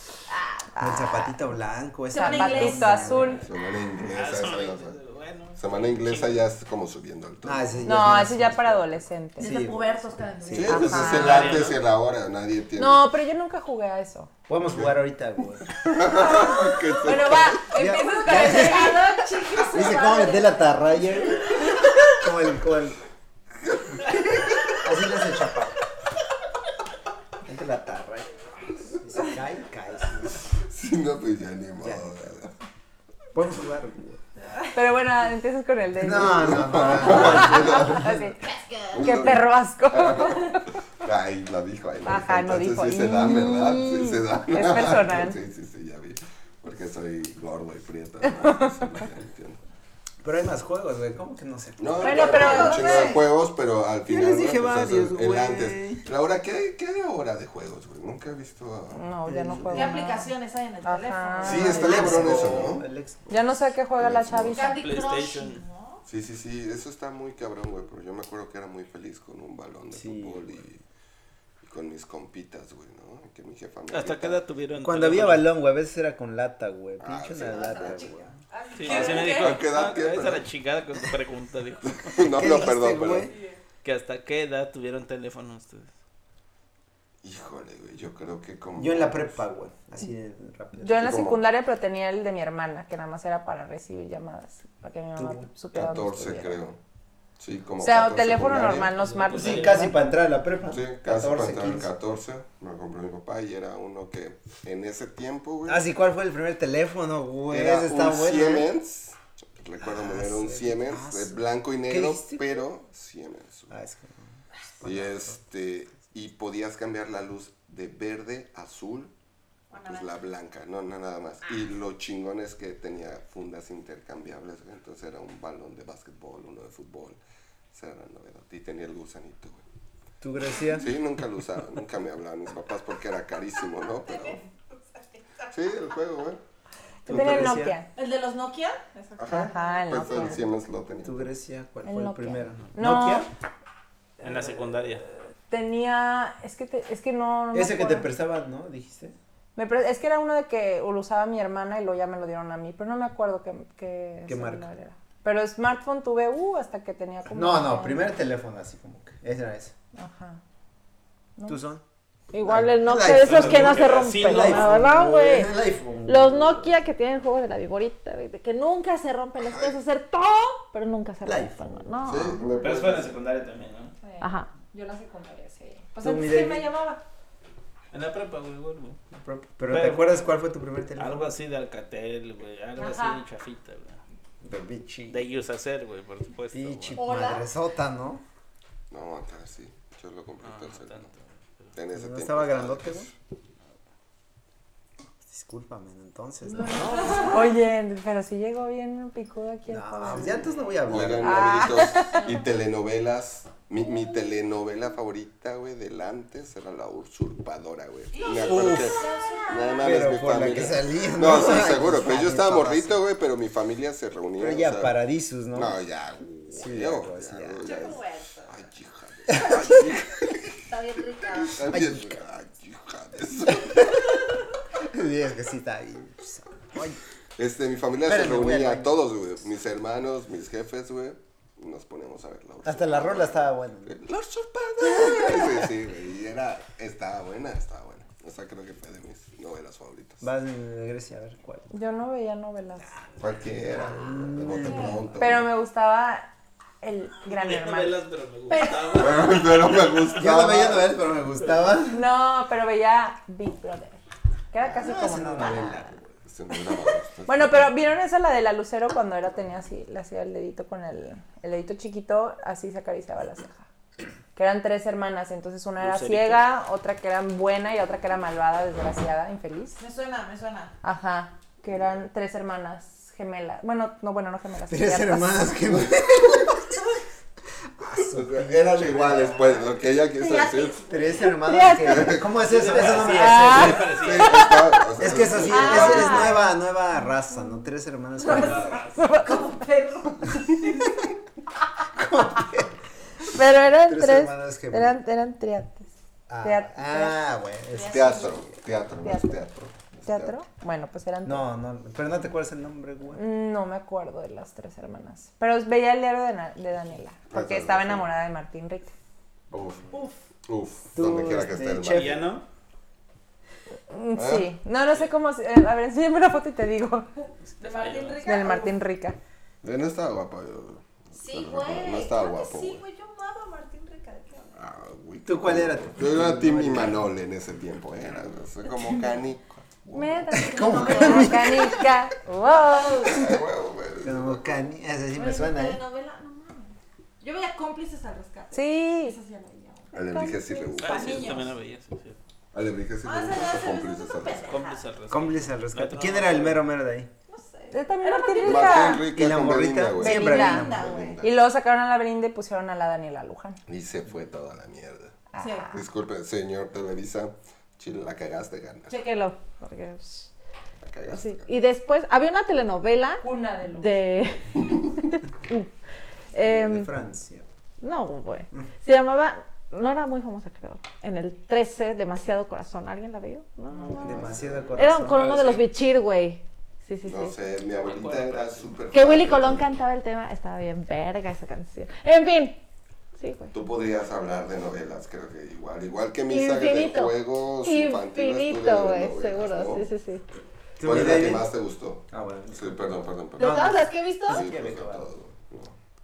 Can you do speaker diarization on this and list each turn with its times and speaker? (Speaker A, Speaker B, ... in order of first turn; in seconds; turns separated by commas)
Speaker A: 0.8-1.2, Speaker B: 0.8-3.5, Speaker C: 2.1-3.4, Speaker A: 2.1-3.5, Speaker D: 3.4-5.0, Speaker E: 4.0-6.4, Speaker D: 5.6-7.8, Speaker B: 7.4-11.3, Speaker A: 7.8-9.6, Speaker C: 9.4-11.6, Speaker D: 10.5-13.1, Speaker A: 10.7-11.6, Speaker E: 11.1-11.8, Speaker A: 12.8-14.3, Speaker B: 14.5-15.6, Speaker D: 14.7-14.9, Speaker D: 15.7-17.6, Speaker A: 17.0-19.2, Speaker B: 17.7-19.0, Speaker C: 18.3-21.8, Speaker B: 19.7-23.0, Speaker D: 23.7-24.7, Speaker B: 24.8-25.8, Speaker B: 27.4-28.3, Speaker B: 28.9-30.4, Speaker D: 30.5-32.5, Speaker B: 31.8-32.3, Speaker B: 33.3-34.2, Speaker A: 34.7-40.6, Speaker B: 36.0-38.2, Speaker D: 36.1-38.2, Speaker C: 38.5-39.0, Speaker D: 38.9-49.6, Speaker A: 42.0-45.4, Speaker B: 50.2-53.1, Speaker D: 51.8-59.0, Speaker A: 52.0-53.1, Speaker C: 52.0-53.2, Speaker B: 54.0-56.0, Speaker A: 58.9-60.3, Speaker B: 59.2-60.1, Speaker C: 59.7-62.6, Speaker A: 60.8-62.5, Speaker D: 61.4-62.9, Speaker B: 61.4-63.4, Speaker A: 63.3-64.8, Speaker D: 64.0-64.7, Speaker C: 64.5-66.0, Speaker E: 64.7-65.6, Speaker D: 66.0-70.8, Speaker B: 69.9-70.6, Speaker D: 71.6-74.4, Speaker E: 73.9-75.5, Speaker B: 74.8-78.3, Speaker D: 77.0-78.1, Speaker C: 77.5-79.6, Speaker E: 78.8-82.2, Speaker D: 78.8-80.5, Speaker A: 78.9-79.2, Speaker D: 81.8-83.3, Speaker B: 82.2-83.3, Speaker E: 83.8-85.9, Speaker D: 87.2-89.3, Speaker B: 88.7-91.3, Speaker A: 90.8-96.6, Speaker D: 91.0-91.4, Speaker B: 95.2-95.5, Speaker D: 95.7-96.8, Speaker D: 97.4-98.9, Speaker A: 97.8-100.0, Speaker E: 99.0-99.9, Speaker B: 99.3-101.9, Speaker D: 100.7-105.8, Speaker B: 105.7-108.7, Speaker D: 107.5-113.7, Speaker B: 109.8-112.6, Speaker B: 113.7-115.4, Speaker D: 114.8-119.1, Speaker C: 119.7-120.1, Speaker D: 119.8-127.2, Speaker D: 127.7-129.6, Speaker B: 130.2-130.9, Speaker D: 130.7-134.4, Speaker C: 134.1-134.4, Speaker C: 135.0-135.5, Speaker D: 135.5-136.4, Speaker B: 137.1-137.8, Speaker A: 137.1-137.9, Speaker C: 137.9-139.9, Speaker D: 139.2-141.3, Speaker A: 139.3-140.4, Speaker B: 141.0-143.3, Speaker A: 141.8-143.3, Speaker E: 144.2-145.0, Speaker A: 145.5-148.1, Speaker B: 147.5-149.2, Speaker A: 149.6-158.1, Speaker B: 154.3-154.7, Speaker B: 157.2-159.7, Speaker A: 159.9-160.4, Speaker B: 161.5-161.8, Speaker F: 162.3-165.5, Speaker B: 162.4-166.8, Speaker E: 163.0-164.8, Speaker F: 166.0-172.4, Speaker D: 169.4-169.7, Speaker B: 171.2-171.8, Speaker D: 172.0-173.1, Speaker E: 172.6-173.9, Speaker A: 174.0-177.0, Speaker F: 174.2-174.5, Speaker B: 176.0-176.7, Speaker E: 177.9-179.0, Speaker B: 179.1-181.3, Speaker E: 179.7-180.3, Speaker E: 181.0-184.0, Speaker A: 182.8-183.2, Speaker B: 184.4-185.3, Speaker E: 185.1-187.0, Speaker B: 186.5-188.2, Speaker C: 186.9-187.5, Speaker D: 188.9-191.1, Speaker E: 190.4-191.7, Speaker D: 191.7-193.1, Speaker B: 191.9-193.1, Speaker B: 195.2-197.3, Speaker C: 196.7-197.4, Speaker A: 197.1-200.4, Speaker B: 199.7-201.9, Speaker D: 200.1-214.9, Speaker A: 201.2-202.2, Speaker C: 202.1-202.4, Speaker C: 208.1-210.5, Speaker B: 208.3-209.0, Speaker B: 209.8-213.0, Speaker B: 214.4-215.8, Speaker D: 215.5-220.6, Speaker B: 216.5-217.8, Speaker C: 217.6-218.6, Speaker B: 219.3-219.6, Speaker C: 220.7-221.6, Speaker D: 221.4-224.2, Speaker B: 221.6-222.2, Speaker B: 223.5-224.0, Speaker B: 224.8-227.0, Speaker D: 227.4-234.1, Speaker B: 228.0-229.0, Speaker B: 232.6-235.7, Speaker D: 234.8-240.2, Speaker B: 240.2-241.7, Speaker A: 241.7-242.9, Speaker D: 243.2-245.5, Speaker B: 243.7-245.2, Speaker C: 244.7-244.9, Speaker A: 245.2-246.3, Speaker A: 246.8-247.9, Speaker E: 247.3-250.2, Speaker C: 248.5-249.2, Speaker D: 248.9-250.9, Speaker B: 250.2-252.0, Speaker A: 251.9-254.0, Speaker A: 254.5-255.9, Speaker B: 254.6-256.1, Speaker D: 256.2-257.8, Speaker A: 257.3-263.6, Speaker A: 264.3-269.8, Speaker E: 265.8-266.4, Speaker C: 269.8-270.7, Speaker A: 270.8-275.5, Speaker B: 274.7-276.8, Speaker B: 277.8-279.6, Speaker D: 278.1-280.9, Speaker C: 280.1-281.2, Speaker B: 280.9-284.0, Speaker D: 281.8-282.9, Speaker E: 282.4-284.5, Speaker A: 283.1-283.9, Speaker D: 283.8-286.4, Speaker B: 285.0-288.8, Speaker A: 285.5-286.5, Speaker C: 285.5-286.0, Speaker C: 288.2-291.0, Speaker E: 288.2-289.2, Speaker A: 289.0-289.2, Speaker B: 291.9-292.7, Speaker A: 293.3-295.9, Speaker B: 293.9-295.0, Speaker B: 296.3-298.3, Speaker A: 296.4-297.2, Speaker C: 297.7-298.4, Speaker D: 297.8-300.4, Speaker A: 299.0-299.3, Speaker A: 300.1-301.5, Speaker B: 301.2-303.2, Speaker A: 303.1-308.9, Speaker D: 307.3-308.1, Speaker D: 309.5-309.9, Speaker D: 310.5-312.3, Speaker B: 310.9-312.4, Speaker E: 311.8-312.4, Speaker A: 313.9-317.3, Speaker D: 314.1-314.5, Speaker E: 317.5-318.3, Speaker C: 317.6-318.8, Speaker A: 318.2-319.2, Speaker D: 319.6-322.8, Speaker C: 321.1-324.6, Speaker D: 324.5-330.3, Speaker B: 325.2-327.1, Speaker A: 329.9-333.3, Speaker C: 330.3-331.5, Speaker B: 330.3-331.9, Speaker D: 333.0-334.6, Speaker B: 334.0-335.8, Speaker C: 335.1-341.5, Speaker A: 338.5-339.2, Speaker D: 339.9-341.4, Speaker A: 340.1-340.6, Speaker E: 340.8-342.2, Speaker D: 342.5-344.6, Speaker C: 343.0-344.8, Speaker E: 344.4-346.6, Speaker B: 345.1-347.1, Speaker C: 347.3-349.0, Speaker A: 347.7-349.1, Speaker D: 348.4-351.3, Speaker B: 349.1-350.9, Speaker A: 350.0-350.7, Speaker C: 350.0-351.2, Speaker A: 351.2-353.6, Speaker D: 353.7-355.2, Speaker A: 355.3-355.8, Speaker C: 355.4-355.7, Speaker D: 355.7-358.9, Speaker F: 358.9-360.3, Speaker D: 360.8-361.5, Speaker F: 361.1-363.2, Speaker A: 363.2-364.0, Speaker F: 363.8-364.5, Speaker F: 366.3-366.9, Speaker B: 366.4-367.4, Speaker F: 367.8-377.5, Speaker D: 373.9-374.8, Speaker B: 373.9-375.3, Speaker E: 375.1-375.6, Speaker D: 377.0-379.7, Speaker E: 377.8-378.8, Speaker F: 378.9-382.6, Speaker F: 383.2-383.5, Speaker D: 383.5-389.8, Speaker F: 386.3-390.2, Speaker B: 390.8-391.5, Speaker D: 390.8-395.8, Speaker B: 392.1-395.1, Speaker F: 393.4-394.4